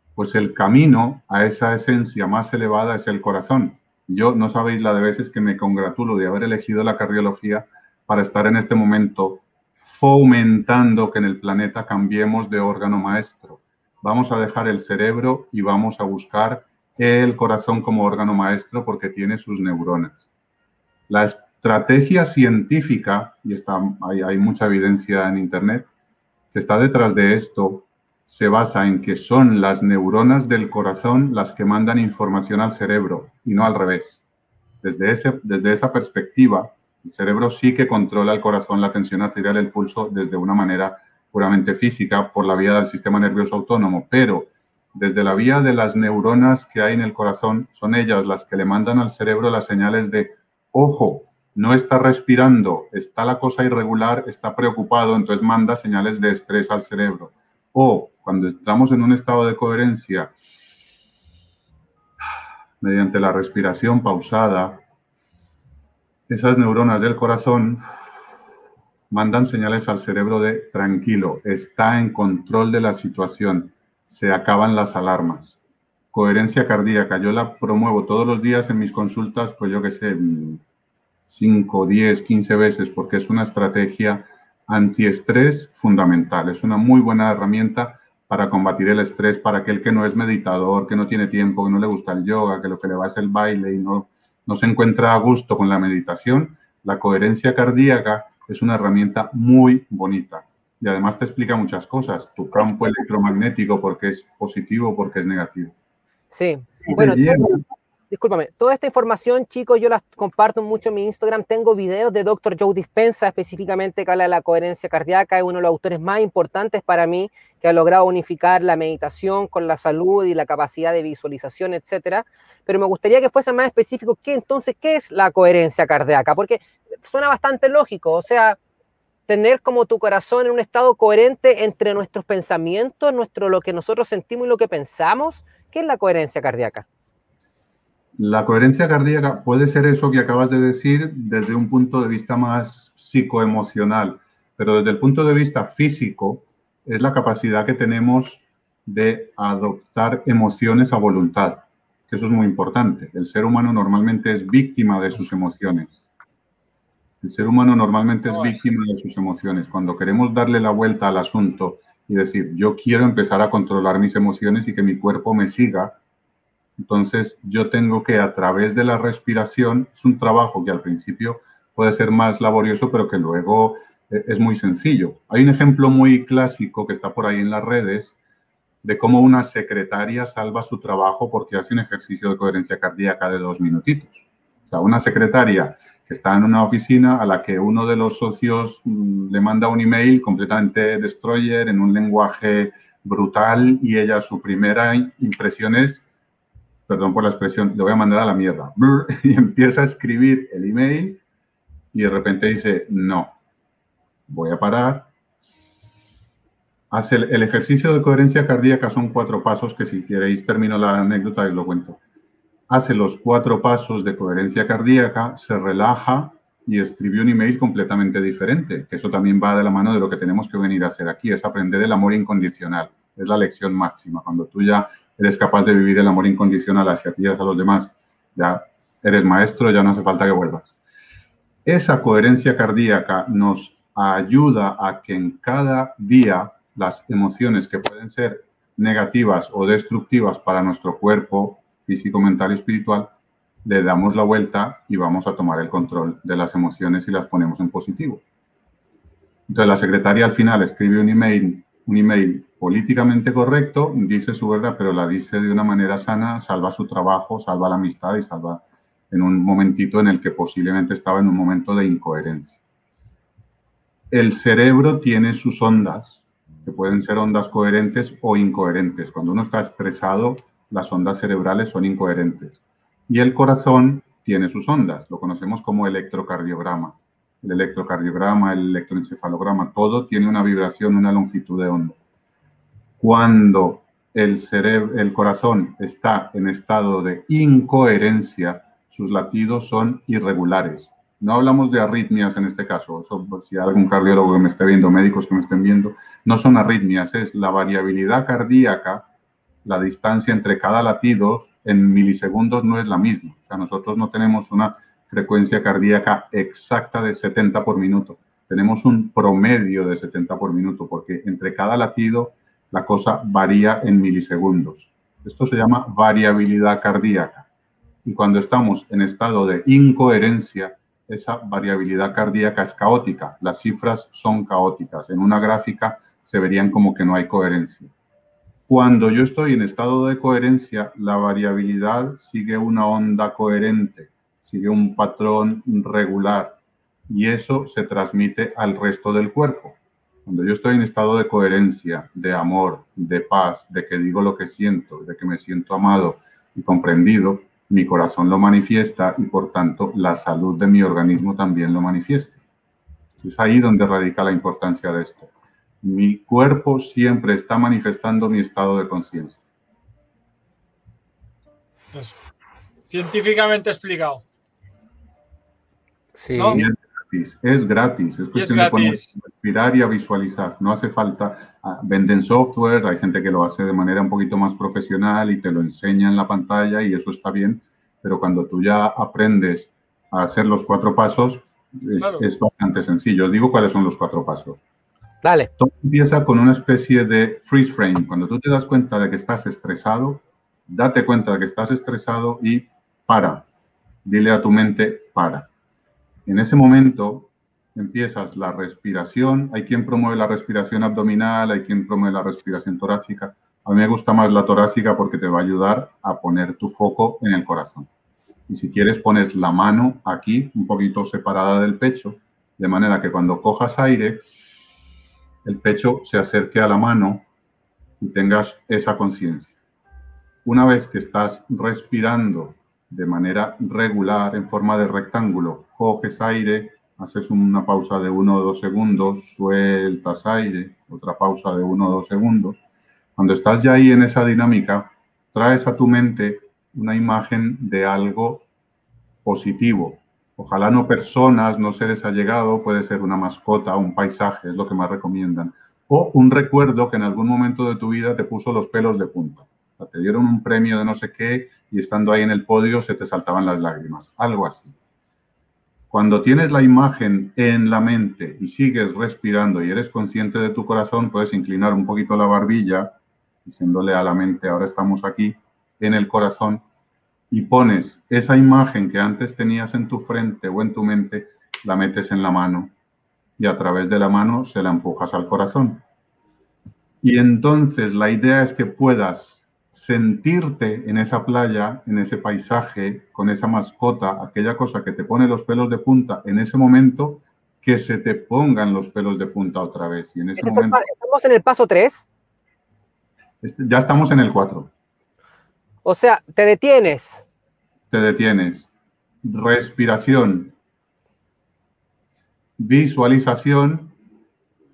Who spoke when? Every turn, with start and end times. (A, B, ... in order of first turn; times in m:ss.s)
0:00.2-0:20.3 A
0:21.1-0:25.9 A
0:26.5-0:34.2 A
0:34.8-1:00.3 A
1:02.8-1:04.8 A
1:06.3-1:07.8 A
1:09.1-1:15.6 A
1:16.1-1:20.6 A
1:21.3-1:45.7 A
1:42.6-1:43.0 B
1:46.3-2:08.6 B
1:46.9-1:47.6 A
2:09.3-2:16.9 B
2:18.2-2:36.0 A
2:37.2-2:46.0 A
2:38.3-2:38.6 C
2:46.8-2:58.2 A
2:58.8-3:16.0 A
3:16.9-3:21.2 A
3:21.9-3:23.4 A
3:24.3-3:25.1 A
3:26.9-3:32.0 A
3:32.7-3:50.7 A
3:51.7-4:03.1 A
4:03.6-4:08.2 A
4:09.5-4:22.6 A
4:24.1-4:42.0 A
4:43.0-4:59.1 A
4:59.6-5:17.5 A
5:18.0-5:27.9 A
5:28.7-5:52.4 A
5:53.2-5:55.3 A
5:55.8-5:59.4 A
6:02.8-6:04.2 C
6:06.2-6:06.7 B
6:06.4-6:06.6 C
6:06.5-6:24.6 A
6:08.3-6:09.1 C
6:22.0-6:22.3 C
6:25.2-6:25.5 B
6:25.6-6:33.5 A
6:34.0-6:35.5 A
6:36.3-6:47.9 A
6:48.5-6:54.2 A
6:55.4-6:57.3 A
6:58.0-6:59.6 A
7:00.4-7:12.6 A
7:13.2-7:18.5 A
7:19.2-7:34.8 A
7:35.9-7:46.6 A
7:47.3-7:52.7 A
7:53.4-7:55.8 A
7:57.0-8:10.8 A
8:10.4-8:12.1 B
8:13.4-8:14.7 A
8:15.8-8:17.3 B
8:17.9-8:18.7 A
8:19.2-8:20.6 A
8:22.6-8:24.0 A